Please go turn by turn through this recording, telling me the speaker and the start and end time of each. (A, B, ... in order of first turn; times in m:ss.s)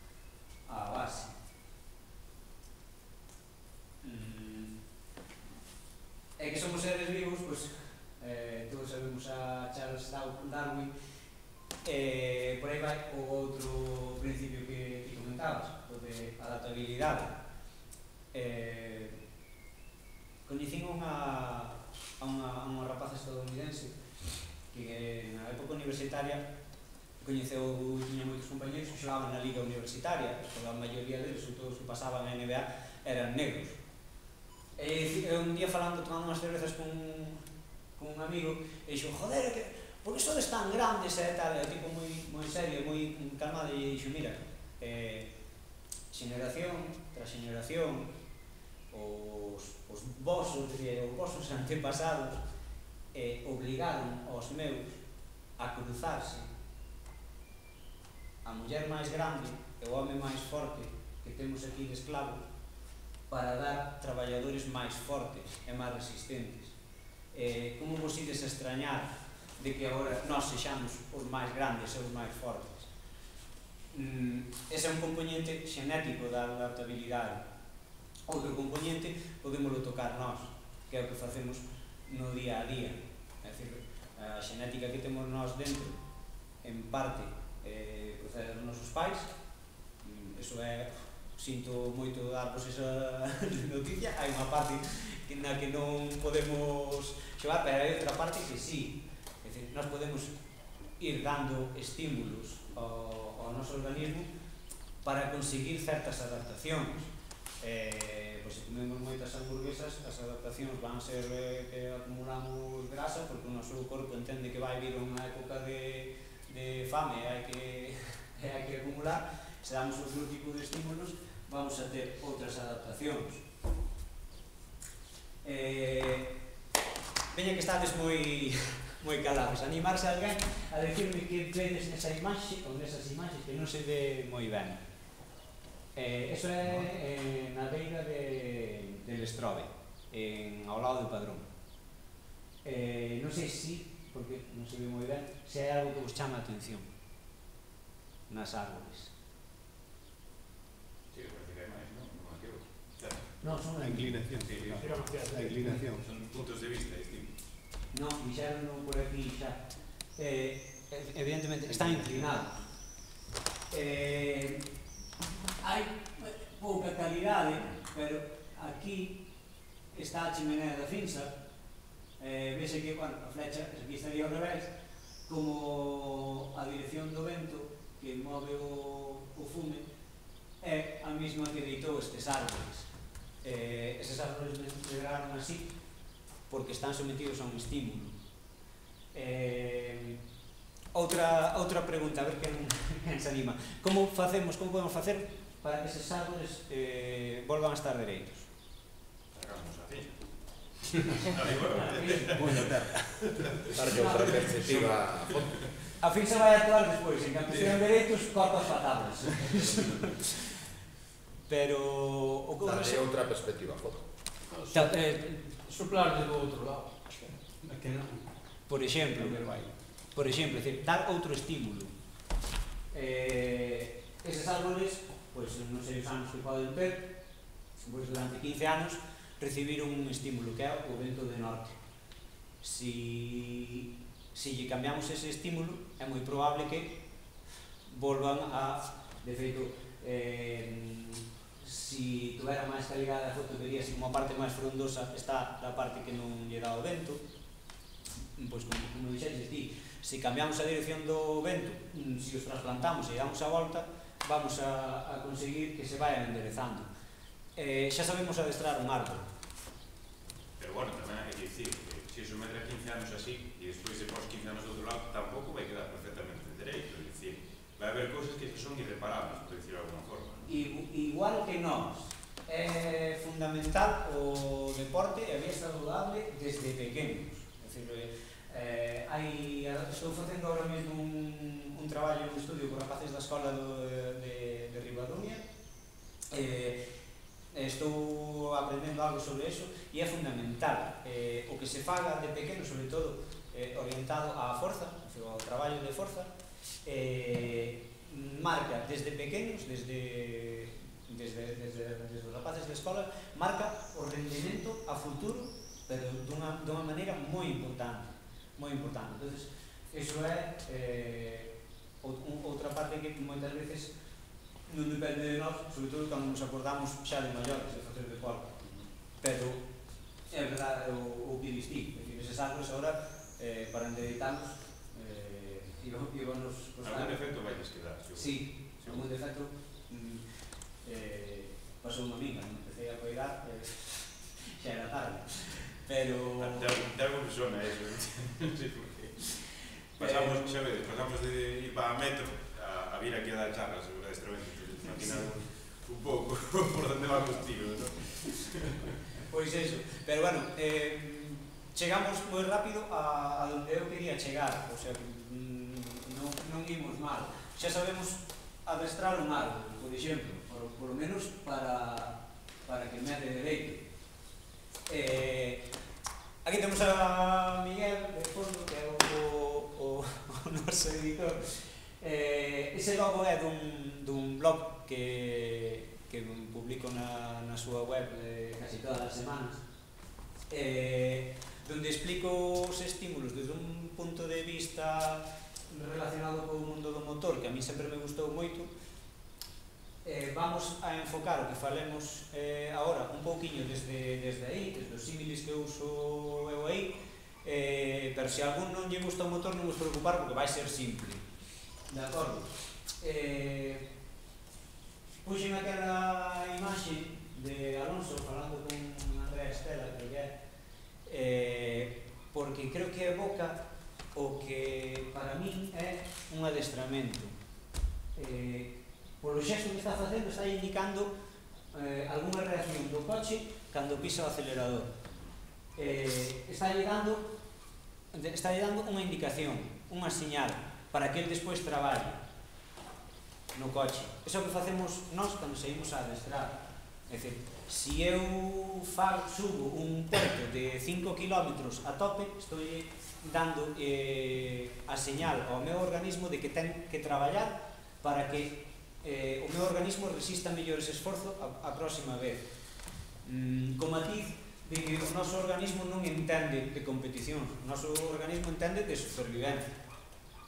0:00.7-0:01.4 A
0:04.0-0:04.7 A
0:06.4-0:10.9 A
0:11.8-0:17.4 A
0:18.3-0:19.2 A
0:20.4-0:24.0 A
0:24.7-0:26.4 A
0:27.2-0:33.8 A
0:34.8-0:37.4 A
0:38.0-0:45.3 A
0:46.1-0:48.1 A
0:48.9-0:52.4 A
0:53.1-0:55.0 A
0:55.6-0:56.5 A
0:58.4-1:02.4 A
1:03.3-1:06.8 A
1:07.3-1:12.9 A
1:13.9-1:17.4 A
1:18.3-1:26.0 A
1:26.6-1:29.3 A
1:30.0-1:40.3 A
1:41.0-1:44.3 A
1:45.0-1:47.1 A
1:47.6-2:03.4 A
2:05.4-2:06.3 A
2:07.3-2:14.8 A
2:15.9-2:21.5 A
2:22.6-2:26.9 A
2:28.3-2:29.1 A
2:31.1-2:37.3 B
2:33.4-2:34.3 A
2:34.6-2:35.8 C
2:35.3-2:35.9 A
2:37.9-2:39.6 A
2:40.2-2:42.5 A
2:41.7-2:42.2 B
2:43.7-2:44.6 A
2:45.6-2:49.2 A
2:49.9-2:51.3 A
2:52.2-2:54.7 A
2:55.2-2:59.9 A
3:00.6-3:02.9 A
3:03.4-3:05.7 A
3:06.5-3:08.2 A
3:09.1-3:10.2 A
3:10.9-3:18.5 A
3:19.3-3:20.3 B
3:20.8-3:25.7 B
3:21.1-3:22.8 A
3:22.4-3:22.9 D
3:23.5-3:25.5 D
3:23.8-3:24.9 A
3:26.0-3:30.5 A
3:29.4-3:29.9 B
3:31.5-3:33.1 A
3:32.6-3:34.0 D
3:34.5-3:38.2 C
3:34.7-3:35.4 A
3:38.7-3:39.4 A
3:39.2-3:39.7 C
3:40.1-3:41.9 A
3:42.9-3:47.1 A
3:47.8-3:51.8 A
3:52.6-3:57.0 A
3:57.8-4:07.2 A
4:08.4-4:16.9 A
4:17.6-4:19.2 A
4:20.6-4:30.4 B
4:30.4-4:45.4 A
4:46.3-4:46.9 A
4:47.5-4:56.3 A
4:56.8-5:13.9 A
5:14.7-5:18.5 A
5:18.6-5:18.9 B
5:19.2-5:19.6 A
5:20.3-5:27.2 A
5:26.8-5:29.0 B
5:28.1-5:30.2 A
5:30.8-5:36.7 A
5:36.3-5:39.3 B
5:40.0-5:40.6 A
5:40.0-5:49.0 B
5:49.2-6:03.8 A
6:04.9-6:05.6 A
6:06.4-6:19.6 A
6:20.5-6:28.7 A
6:30.0-6:41.2 A
6:41.9-6:43.8 A
6:45.2-6:50.3 A
6:51.0-6:53.6 A
6:54.1-6:57.3 A
6:58.2-7:01.1 A
7:01.7-7:04.9 A
7:05.8-7:07.3 A
7:08.1-7:12.2 A
7:13.5-7:32.4 A
7:33.2-7:39.7 A